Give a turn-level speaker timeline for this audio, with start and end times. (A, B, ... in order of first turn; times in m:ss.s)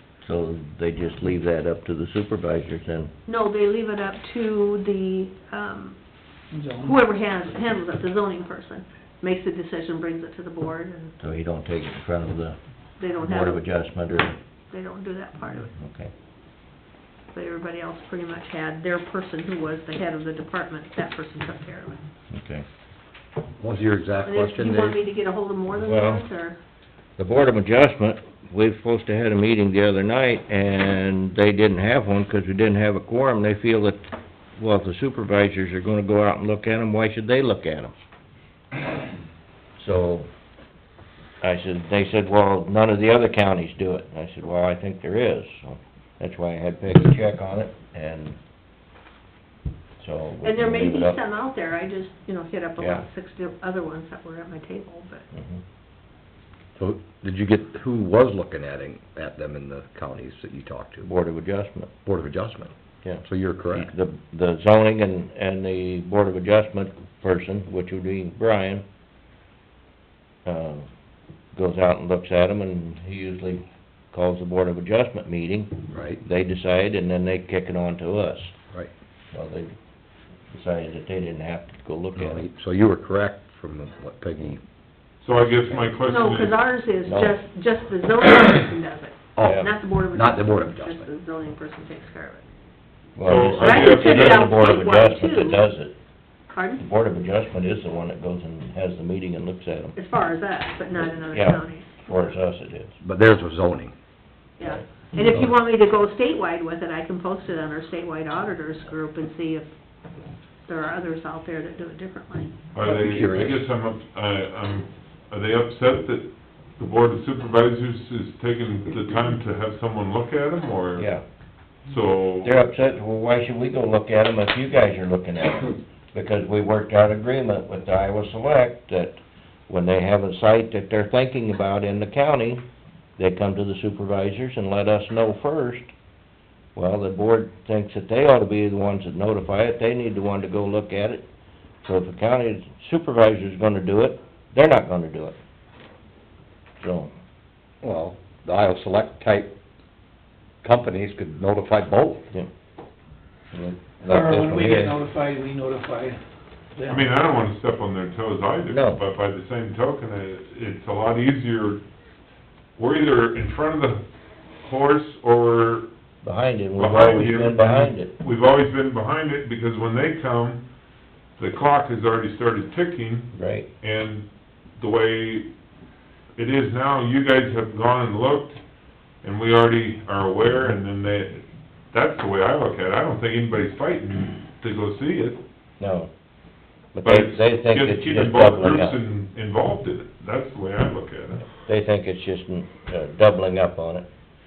0:00.2-0:03.1 A
0:03.3-0:06.0 B
0:06.5-0:07.0 C
0:06.8-0:11.2 B
0:11.2-0:12.6 A
0:13.0-0:13.6 B
0:13.2-0:14.4 A
0:14.7-0:15.7 B
0:15.8-0:16.1 A
0:17.3-0:22.0 B
0:22.3-0:22.7 A
0:23.6-0:25.0 D
0:24.2-0:26.6 B
0:25.8-0:26.2 A
0:27.2-0:37.9 A
0:39.8-0:40.3 A
0:41.4-0:48.4 A
0:50.0-0:51.2 A
0:50.4-0:55.2 B
0:55.3-0:55.6 A
0:56.8-1:01.1 D
1:01.0-1:01.9 A
1:02.0-1:02.7 D
1:03.0-1:08.8 A
1:03.2-1:03.9 D
1:10.4-1:10.9 A
1:11.5-1:18.5 A
1:15.9-1:16.2 D
1:19.3-1:19.7 A
1:20.5-1:22.4 A
1:22.1-1:24.6 D
1:25.2-1:26.6 E
1:26.1-1:32.4 B
1:27.1-1:27.4 A
1:29.4-1:31.1 D
1:29.4-1:29.7 A
1:33.2-1:35.9 A
1:33.2-1:34.5 E
1:33.6-1:35.6 B
1:36.5-1:36.8 B
1:36.8-1:40.0 A
1:40.0-1:42.3 B
1:41.3-1:43.0 A
1:43.0-1:43.9 D
1:44.6-1:49.7 B
1:50.6-1:52.5 B
1:52.7-2:01.1 E
1:52.8-1:53.7 D
2:01.0-2:01.2 A
2:01.9-2:02.6 E
2:02.4-2:12.6 A
2:13.2-2:15.9 A
2:16.8-2:21.2 A
2:21.8-2:25.4 A
2:26.8-2:27.1 A
2:27.8-2:29.6 D
2:30.6-2:32.3 D
2:33.5-2:35.0 A
2:34.1-2:36.2 C
2:36.8-2:37.1 C
2:36.9-2:41.8 E
2:38.7-2:39.0 A
2:42.8-2:44.0 E
2:44.6-2:45.9 E
2:46.2-2:48.1 A
2:46.8-2:50.6 E
2:51.4-2:53.3 E
2:53.3-2:53.7 A
2:53.8-2:54.3 E
2:54.8-2:55.5 E
2:56.4-2:58.6 E
2:59.2-3:05.4 E
3:05.8-3:06.1 A
3:07.0-3:09.0 A
3:07.0-3:11.5 E
3:11.6-3:14.1 A